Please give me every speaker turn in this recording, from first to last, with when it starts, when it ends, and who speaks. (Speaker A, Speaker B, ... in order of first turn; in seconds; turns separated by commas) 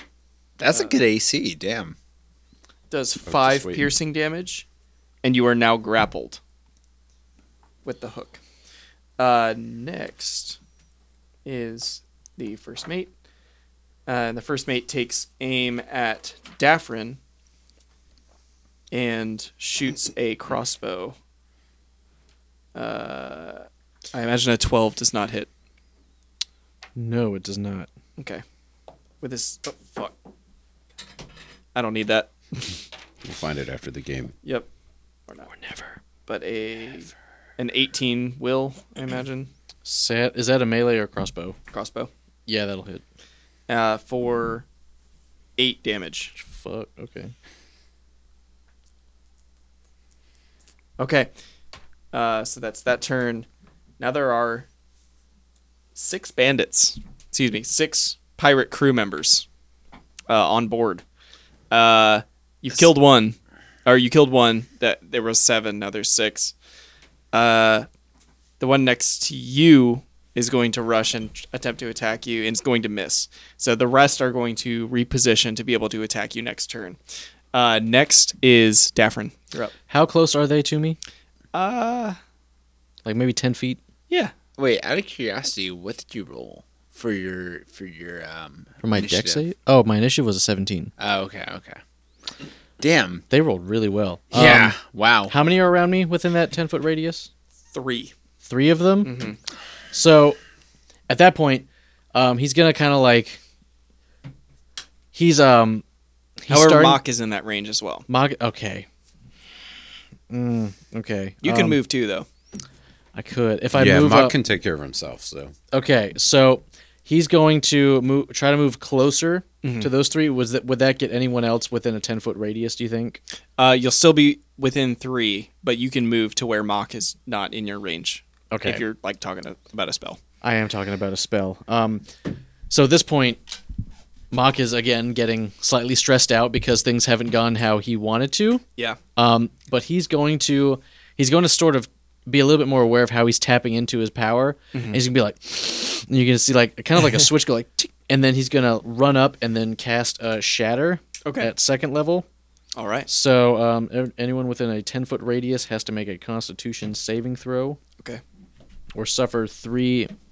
Speaker A: 0.6-1.9, Speaker B: 0.7-0.9, Speaker B: 2.9-4.6, Speaker C: 3.2-3.9, Speaker B: 5.2-6.4, Speaker B: 7.8-8.4, Speaker B: 9.2-10.6, Speaker B: 11.4-13.1, Speaker B: 14.1-17.2, Speaker B: 18.9-21.1, Speaker B: 22.7-25.5, Speaker D: 26.9-27.9, Speaker B: 28.2-28.4, Speaker B: 29.2-30.1, Speaker B: 31.7-32.8, Speaker C: 33.2-34.3, Speaker B: 35.3-35.7, Speaker D: 35.6-35.9, Speaker B: 36.2-39.5, Speaker D: 39.8-41.5, Speaker B: 41.7-42.1, Speaker D: 42.5-43.0, Speaker B: 43.7-44.6, Speaker B: 45.6-46.3, Speaker D: 46.4-47.3, Speaker B: 51.0-51.3, Speaker B: 52.1-53.5, Speaker B: 54.0-54.7, Speaker B: 56.0-59.5, Speaker B: 60.3-61.0, Speaker B: 61.7-66.5, Speaker B: 67.3-67.9, Speaker B: 68.6-77.0, Speaker B: 77.5-79.7, Speaker D: 79.9-81.0, Speaker B: 81.5-82.2, Speaker D: 83.0-83.8, Speaker A: 84.6-89.4, Speaker D: 88.8-90.9, Speaker A: 91.0-91.8, Speaker A: 92.8-93.2, Speaker D: 93.3-94.8, Speaker A: 94.3-95.3, Speaker D: 95.3-97.3, Speaker B: 97.7-98.1, Speaker D: 98.4-99.2, Speaker B: 99.0-99.4, Speaker D: 99.9-100.4, Speaker D: 101.1-103.4, Speaker D: 105.1-105.8, Speaker D: 106.4-107.0, Speaker B: 106.5-108.0, Speaker D: 108.1-108.8, Speaker D: 110.3-111.8, Speaker B: 111.4-112.2, Speaker D: 113.1-114.4, Speaker C: 113.7-115.5, Speaker D: 115.7-123.2, Speaker B: 119.6-119.9, Speaker B: 123.6-130.2, Speaker D: 128.5-128.8, Speaker D: 130.4-132.1, Speaker D: 132.7-133.4, Speaker D: 134.3-138.6, Speaker D: 139.2-152.2, Speaker B: 144.7-145.0, Speaker B: 151.2-151.5, Speaker B: 152.8-153.1, Speaker D: 153.1-157.8, Speaker D: 158.9-160.1